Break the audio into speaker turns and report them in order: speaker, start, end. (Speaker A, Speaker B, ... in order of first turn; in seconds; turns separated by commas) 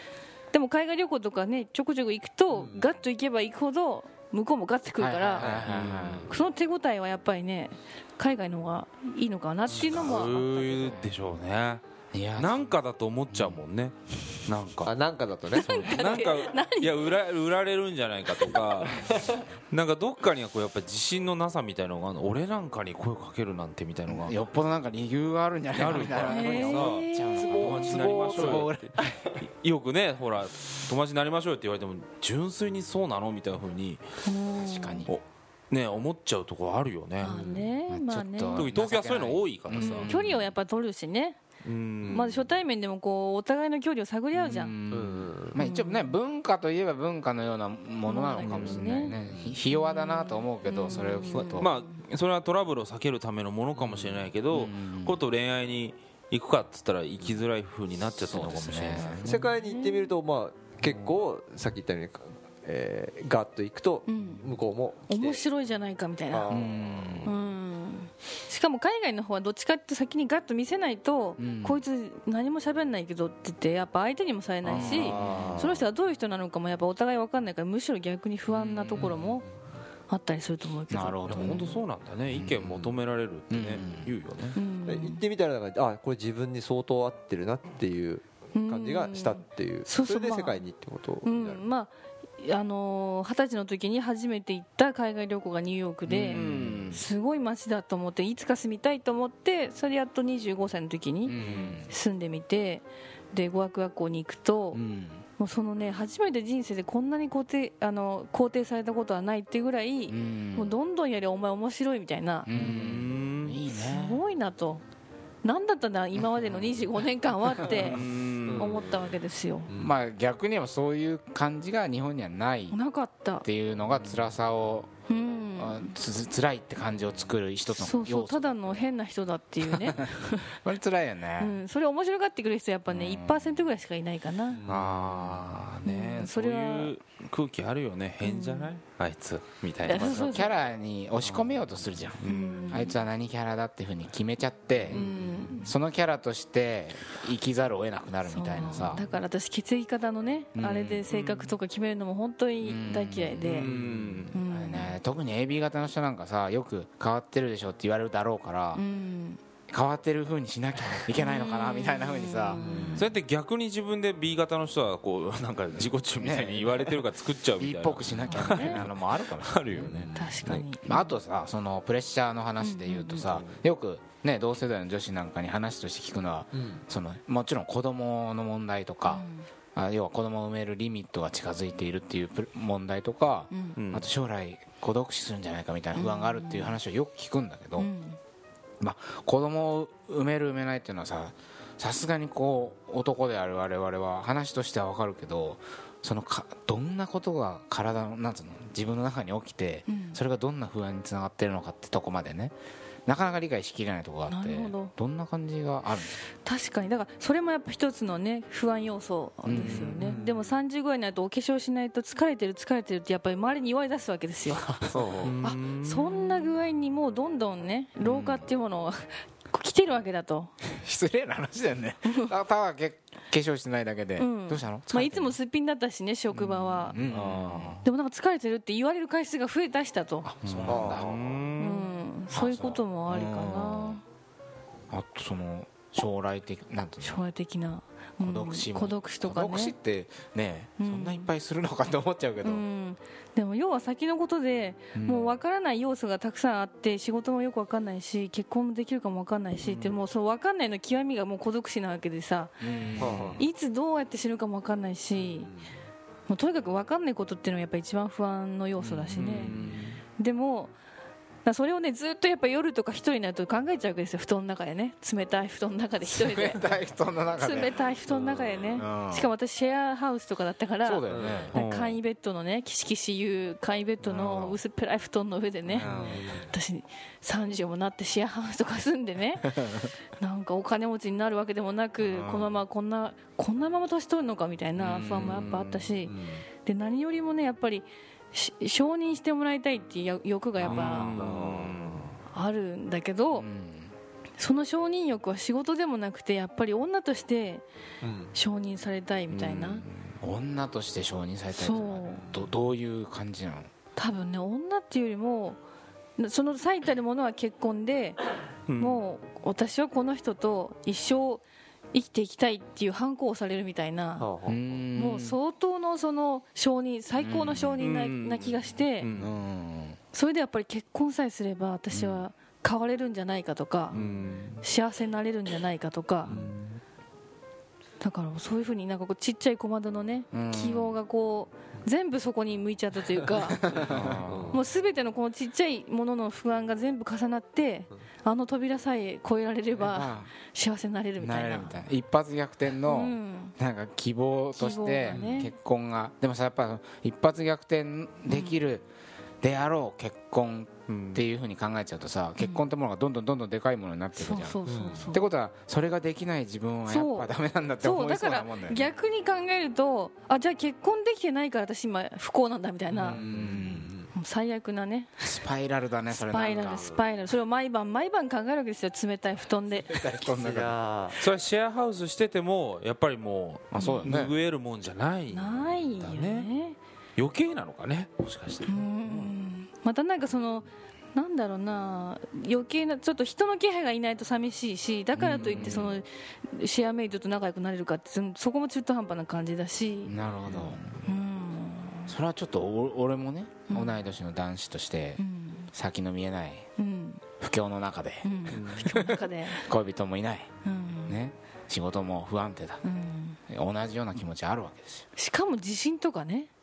Speaker A: 0.5-5.5, Speaker B: 2.5-2.9, Speaker C: 5.0-6.3, Speaker D: 5.4-6.2, Speaker B: 5.7-6.2, Speaker A: 6.3-11.1, Speaker D: 9.7-11.8, Speaker C: 12.1-12.6, Speaker D: 12.4-14.9, Speaker C: 13.3-13.6, Speaker B: 14.9-15.7, Speaker D: 15.5-24.4, Speaker A: 15.5-17.1, Speaker B: 18.9-19.4, Speaker C: 24.1-29.0, Speaker D: 25.7-34.0, Speaker A: 26.3-28.0, Speaker B: 27.4-29.2, Speaker A: 34.2-35.1, Speaker C: 34.6-35.1, Speaker D: 35.1-37.7, Speaker A: 37.2-38.7, Speaker C: 37.9-40.5, Speaker D: 38.5-40.2, Speaker A: 39.8-41.4, Speaker D: 41.6-42.5, Speaker B: 42.0-42.3, Speaker A: 42.1-44.7, Speaker C: 44.3-51.7, Speaker B: 44.9-45.6, Speaker A: 45.6-46.1, Speaker A: 48.0-51.9, Speaker D: 48.4-49.6, Speaker D: 51.3-59.3, Speaker C: 54.2-55.2, Speaker C: 58.1-59.3, Speaker A: 59.2-60.1, Speaker B: 59.2-65.4, Speaker D: 60.8-61.2, Speaker A: 64.1-66.5, Speaker B: 66.3-67.4, Speaker C: 66.5-67.3, Speaker A: 67.2-79.5, Speaker C: 71.4-71.8, Speaker C: 74.7-75.6, Speaker B: 74.7-75.8, Speaker C: 78.5-79.1, Speaker A: 80.1-81.7, Speaker C: 80.9-81.8, Speaker D: 81.3-84.6, Speaker C: 82.3-82.8, Speaker C: 83.5-84.1, Speaker A: 84.5-85.2, Speaker B: 84.8-91.7, Speaker A: 88.5-90.6, Speaker A: 91.2-104.8, Speaker C: 96.1-97.0, Speaker D: 96.3-96.9, Speaker C: 101.2-101.9, Speaker B: 101.4-101.7, Speaker C: 104.7-105.2, Speaker A: 105.4-112.5, Speaker C: 110.1-110.7, Speaker C: 112.5-114.2, Speaker D: 112.5-113.6, Speaker A: 113.7-114.8, Speaker A: 115.4-118.0, Speaker D: 117.7-118.9, Speaker B: 118.5-119.0, Speaker A: 118.6-119.7, Speaker B: 119.7-119.9, Speaker C: 119.8-122.8, Speaker A: 122.7-123.5, Speaker C: 123.4-124.9, Speaker A: 125.1-125.9, Speaker C: 125.6-128.9, Speaker A: 127.7-130.5, Speaker C: 129.7-130.1, Speaker C: 130.6-131.6, Speaker A: 131.4-134.6, Speaker C: 132.9-133.7, Speaker B: 134.5-135.1, Speaker D: 134.7-140.2, Speaker A: 135.8-136.9, Speaker A: 138.2-138.7, Speaker A: 139.8-140.5, Speaker C: 139.9-149.1, Speaker D: 141.2-142.9, Speaker A: 142.3-143.0, Speaker A: 144.9-145.7, Speaker A: 148.3-153.7, Speaker C: 150.6-151.0, Speaker D: 151.1-151.6, Speaker C: 152.6-153.7, Speaker D: 153.4-154.4, Speaker B: 153.7-154.2, Speaker A: 154.3-155.0, Speaker C: 154.5-158.8, Speaker A: 158.7-159.4, Speaker C: 159.7-162.6, Speaker A: 161.2-163.0, Speaker B: 162.6-163.1, Speaker D: 162.9-170.7, Speaker C: 166.2-167.0, Speaker C: 167.6-170.0, Speaker A: 168.3-168.8, Speaker B: 169.8-170.4, Speaker A: 170.1-171.1, Speaker C: 170.8-179.2, Speaker A: 172.6-173.3, Speaker D: 173.2-173.6, Speaker B: 176.5-176.8, Speaker A: 179.1-179.5, Speaker C: 179.8-187.9, Speaker A: 183.5-183.8, Speaker D: 183.8-184.1, Speaker A: 185.9-186.8, Speaker A: 187.8-188.2, Speaker C: 188.8-202.6, Speaker A: 199.9-200.2, Speaker C: 203.1-206.2, Speaker A: 204.3-204.9, Speaker A: 206.4-214.9, Speaker C: 209.4-210.2, Speaker B: 209.8-210.5, Speaker B: 214.9-215.4, Speaker D: 215.2-216.5, Speaker A: 215.4-220.5, Speaker C: 218.0-218.5, Speaker C: 220.7-225.4, Speaker A: 224.2-227.0, Speaker C: 226.3-227.8, Speaker D: 226.9-227.8, Speaker A: 227.8-230.3, Speaker C: 230.2-231.2, Speaker D: 230.4-231.9, Speaker B: 230.7-231.1, Speaker A: 231.6-234.0, Speaker C: 232.3-234.0, Speaker C: 234.9-237.2, Speaker A: 237.0-239.8, Speaker C: 238.2-242.6, Speaker A: 240.8-241.3, Speaker A: 242.4-252.7, Speaker C: 244.9-245.4, Speaker C: 249.6-250.0, Speaker C: 252.6-253.4, Speaker B: 253.0-253.4, Speaker A: 253.4-255.5, Speaker B: 255.3-255.8, Speaker A: 256.3-259.5, Speaker D: 259.1-260.0, Speaker C: 259.2-259.9, Speaker A: 260.2-260.7, Speaker A: 261.4-266.8, Speaker C: 266.1-267.8, Speaker A: 267.4-279.7, Speaker C: 268.8-269.3, Speaker C: 270.8-271.5, Speaker B: 271.1-271.5, Speaker D: 271.5-272.0, Speaker C: 274.0-274.6, Speaker C: 275.7-276.3, Speaker B: 275.8-276.5, Speaker A: 280.2-291.1, Speaker C: 282.0-282.5, Speaker C: 284.8-285.8, Speaker D: 285.1-285.7, Speaker B: 286.1-286.5, Speaker C: 290.6-290.9, Speaker D: 290.6-292.1, Speaker B: 291.1-292.1, Speaker A: 292.3-293.5, Speaker C: 293.4-293.9, Speaker A: 294.4-297.6, Speaker B: 298.0-298.3, Speaker A: 298.3-299.8, Speaker D: 299.3-300.1, Speaker C: 300.2-303.7, Speaker A: 301.5-302.2, Speaker A: 304.0-305.6, Speaker A: 306.2-308.2, Speaker D: 308.7-309.0, Speaker A: 308.8-314.3, Speaker B: 314.2-314.6, Speaker C: 314.5-315.4, Speaker A: 314.9-319.1, Speaker D: 317.2-319.3, Speaker C: 319.2-320.0, Speaker A: 320.1-324.0, Speaker D: 321.9-322.2, Speaker B: 323.9-324.2, Speaker D: 323.9-324.6, Speaker A: 324.6-326.3, Speaker D: 326.3-326.8, Speaker B: 326.3-326.5, Speaker A: 328.0-333.7, Speaker C: 330.3-331.0, Speaker C: 333.7-334.2, Speaker D: 333.9-334.6, Speaker B: 334.3-334.6, Speaker A: 334.5-341.8, Speaker C: 339.8-340.3, Speaker C: 341.2-348.9, Speaker A: 342.8-343.6, Speaker A: 344.5-345.5, Speaker A: 348.3-348.6, Speaker C: 349.4-354.6, Speaker D: 350.9-351.2, Speaker A: 352.4-352.7, Speaker A: 354.1-355.3, Speaker B: 354.7-355.1, Speaker C: 355.1-358.9, Speaker A: 356.9-363.2, Speaker B: 362.9-364.1, Speaker C: 363.1-363.9, Speaker A: 364.1-365.4, Speaker C: 365.2-366.9, Speaker A: 366.1-370.2, Speaker C: 369.8-370.8, Speaker B: 370.2-371.2, Speaker D: 371.1-376.5, Speaker C: 373.7-374.3, Speaker A: 373.8-374.2, Speaker A: 375.3-376.8, Speaker D: 377.2-379.3, Speaker A: 378.6-390.1, Speaker C: 385.1-386.0, Speaker D: 385.5-385.8, Speaker C: 390.1-390.9, Speaker D: 390.5-391.0, Speaker A: 391.1-392.1, Speaker C: 392.1-395.2, Speaker A: 393.7-394.0, Speaker A: 395.2-395.7, Speaker C: 395.7-396.7, Speaker A: 396.8-397.2, Speaker C: 397.4-400.5, Speaker A: 398.2-399.7, Speaker D: 398.5-398.9, Speaker A: 400.6-401.2, Speaker C: 401.1-402.8, Speaker A: 402.8-403.4, Speaker C: 403.5-405.1, Speaker A: 405.2-406.5